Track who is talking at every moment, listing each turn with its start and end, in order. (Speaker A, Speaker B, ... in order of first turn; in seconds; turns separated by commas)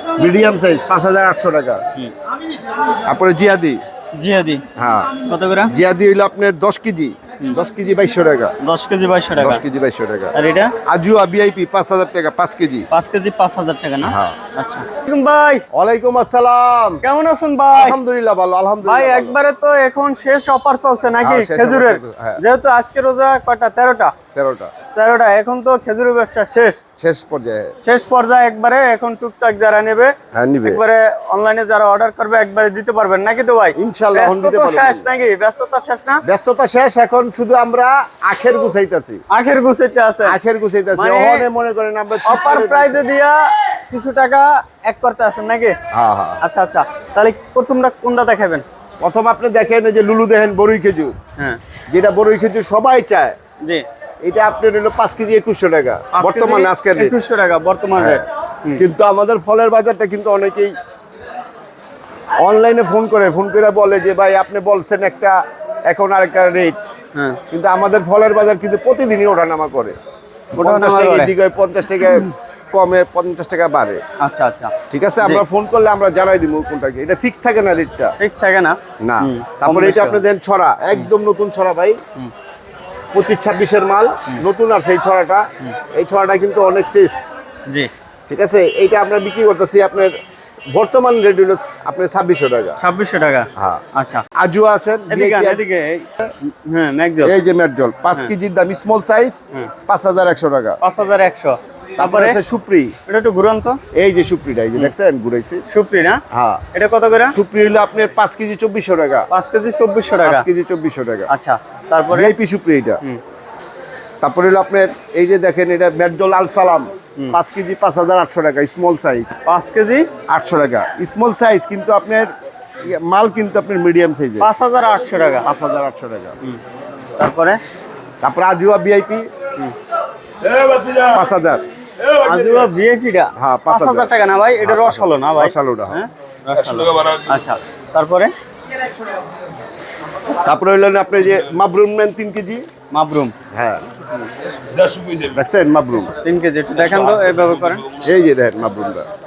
Speaker A: 0.1-1.8, Speaker A: 3.0-3.8, Speaker B: 4.1-4.6, Speaker A: 4.8-8.5, Speaker B: 5.2-5.7, Speaker B: 8.6-9.6, Speaker A: 9.4-10.3, Speaker B: 10.3-10.7, Speaker A: 10.9-12.9, Speaker B: 12.9-15.7, Speaker A: 14.0-14.4, Speaker A: 15.7-17.0, Speaker B: 17.0-18.0, Speaker A: 17.8-19.4, Speaker B: 18.8-24.1, Speaker A: 21.2-22.4, Speaker A: 24.3-24.8, Speaker B: 24.9-26.8, Speaker A: 27.0-27.7, Speaker B: 27.8-36.2, Speaker A: 30.3-30.8, Speaker A: 33.8-35.1, Speaker A: 36.2-39.2, Speaker B: 39.3-40.4, Speaker A: 40.2-43.0, Speaker B: 40.9-41.5, Speaker B: 42.2-45.8, Speaker A: 45.9-46.4, Speaker B: 46.4-48.6, Speaker A: 49.0-51.2, Speaker A: 51.9-53.4, Speaker A: 54.2-57.1, Speaker B: 56.1-58.8, Speaker A: 58.0-58.2, Speaker A: 58.7-60.7, Speaker A: 62.4-66.8, Speaker B: 67.1-67.4, Speaker A: 67.5-70.0, Speaker B: 70.5-71.3, Speaker A: 70.5-74.0, Speaker B: 74.2-75.4, Speaker A: 74.9-78.1, Speaker B: 78.2-80.2, Speaker A: 79.0-82.0, Speaker A: 83.1-87.2, Speaker A: 88.3-90.1, Speaker A: 90.7-92.8, Speaker B: 92.8-94.2, Speaker A: 93.5-93.8, Speaker A: 94.3-95.6, Speaker B: 95.1-97.3, Speaker A: 97.2-100.8, Speaker B: 100.8-102.4, Speaker A: 102.0-102.9, Speaker B: 103.1-103.8, Speaker A: 103.9-105.6, Speaker B: 105.7-106.2, Speaker A: 106.3-106.6, Speaker B: 106.7-107.4, Speaker A: 107.3-109.3, Speaker B: 109.3-110.5, Speaker A: 110.2-111.3, Speaker B: 111.3-112.3, Speaker A: 112.1-113.0, Speaker A: 114.2-119.3, Speaker B: 119.5-120.1, Speaker A: 120.3-122.3, Speaker A: 122.8-124.5, Speaker B: 124.4-125.5, Speaker A: 125.4-126.3, Speaker B: 127.2-127.6, Speaker A: 128.2-129.3, Speaker A: 130.6-131.6, Speaker B: 132.1-138.3, Speaker A: 133.3-134.1, Speaker A: 134.6-136.0, Speaker A: 140.4-142.7, Speaker B: 142.9-143.3, Speaker A: 143.5-143.8, Speaker A: 145.2-146.2, Speaker B: 146.2-147.8, Speaker A: 148.0-149.1